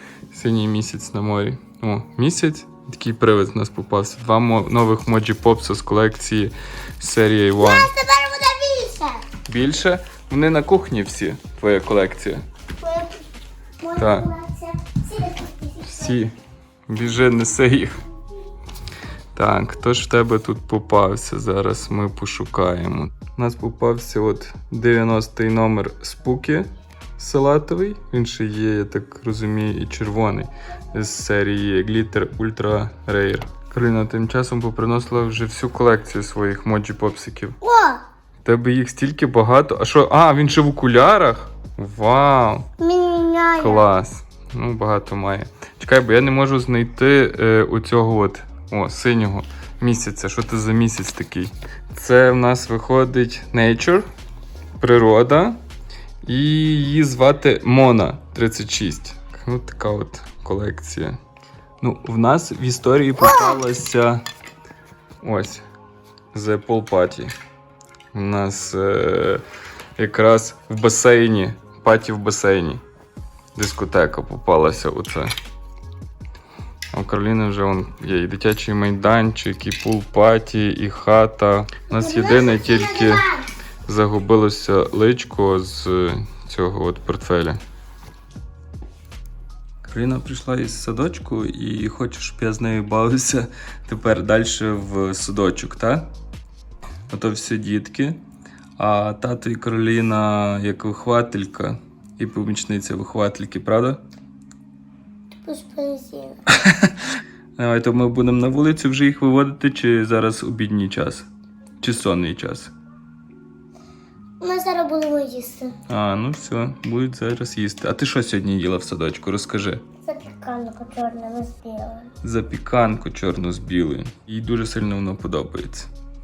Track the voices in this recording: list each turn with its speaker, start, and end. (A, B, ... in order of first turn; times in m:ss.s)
0:00.3-0:07.9 A
0:07.6-0:09.2 B
0:09.5-0:12.4 A
0:12.8-0:13.2 B
0:13.8-0:16.1 B
0:14.0-0:14.3 A
0:15.8-0:16.3 A
0:16.9-0:18.0 A
0:19.3-0:37.6 A
0:37.6-0:38.0 B
0:38.4-0:42.7 A
0:42.8-0:43.8 B
0:43.6-0:54.0 A
0:54.8-0:55.6 A
0:56.2-1:01.2 A
1:01.8-1:04.2 A
1:03.2-1:03.6 B
1:05.2-1:05.6 A
1:06.3-1:07.3 A
1:08.1-1:09.4 A
1:10.0-1:12.8 A
1:13.5-1:15.3 A
1:16.9-1:23.3 A
1:21.9-1:23.4 B
1:23.8-1:27.6 A
1:29.8-1:36.1 A
1:37.1-1:38.2 A
1:38.8-1:44.0 A
1:45.4-1:46.4 B
1:46.5-1:46.9 A
1:47.6-1:51.3 A
1:51.8-1:52.7 A
1:54.4-1:55.7 B
1:55.9-1:59.8 A
2:00.0-2:02.1 B
2:02.2-2:05.9 A